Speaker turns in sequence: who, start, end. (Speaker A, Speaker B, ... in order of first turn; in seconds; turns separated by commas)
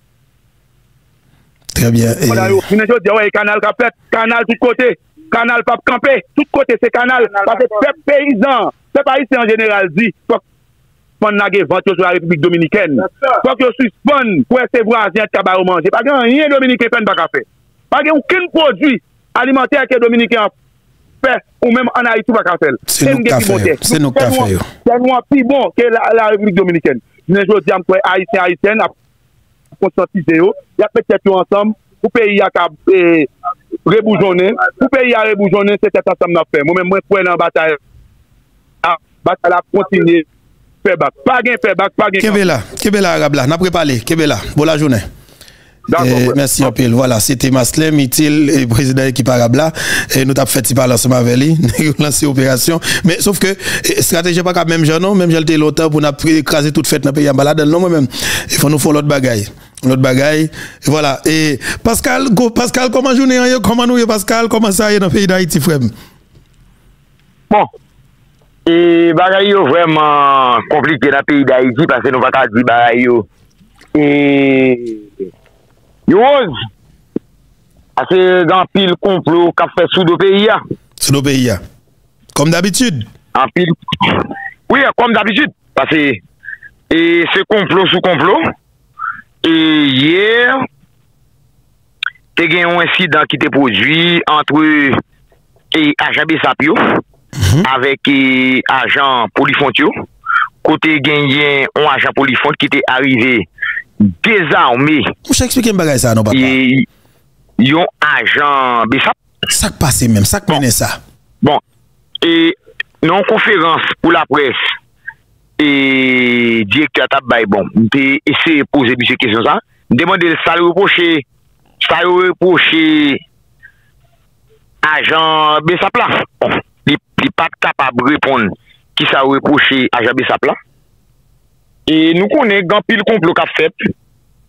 Speaker A: 1.7-2.6, Speaker B: 2.2-10.4, Speaker B: 11.2-20.5, Speaker B: 21.2-28.9, Speaker A: 22.9-24.7, Speaker B: 29.8-33.3, Speaker B: 33.9-37.8, Speaker B: 38.8-40.2, Speaker B: 40.8-42.5, Speaker A: 42.2-45.0, Speaker B: 45.9-46.4, Speaker A: 46.0-65.9, Speaker C: 68.7-73.2, Speaker C: 73.9-75.0, Speaker C: 76.1-76.5, Speaker C: 78.0-80.6, Speaker A: 81.0-81.6, Speaker A: 82.3-83.1, Speaker C: 83.3-86.2, Speaker C: 86.9-88.4, Speaker C: 89.4-90.6, Speaker C: 92.3-95.0, Speaker C: 95.7-97.0, Speaker A: 97.4-97.7, Speaker C: 97.6-99.9, Speaker C: 100.6-103.5, Speaker C: 104.0-105.1, Speaker A: 105.3-106.5, Speaker C: 106.3-106.9, Speaker C: 107.6-109.1, Speaker A: 109.5-111.0, Speaker C: 112.2-114.7, Speaker C: 115.6-121.2, Speaker C: 121.8-123.2, Speaker C: 124.8-130.6, Speaker C: 131.9-133.7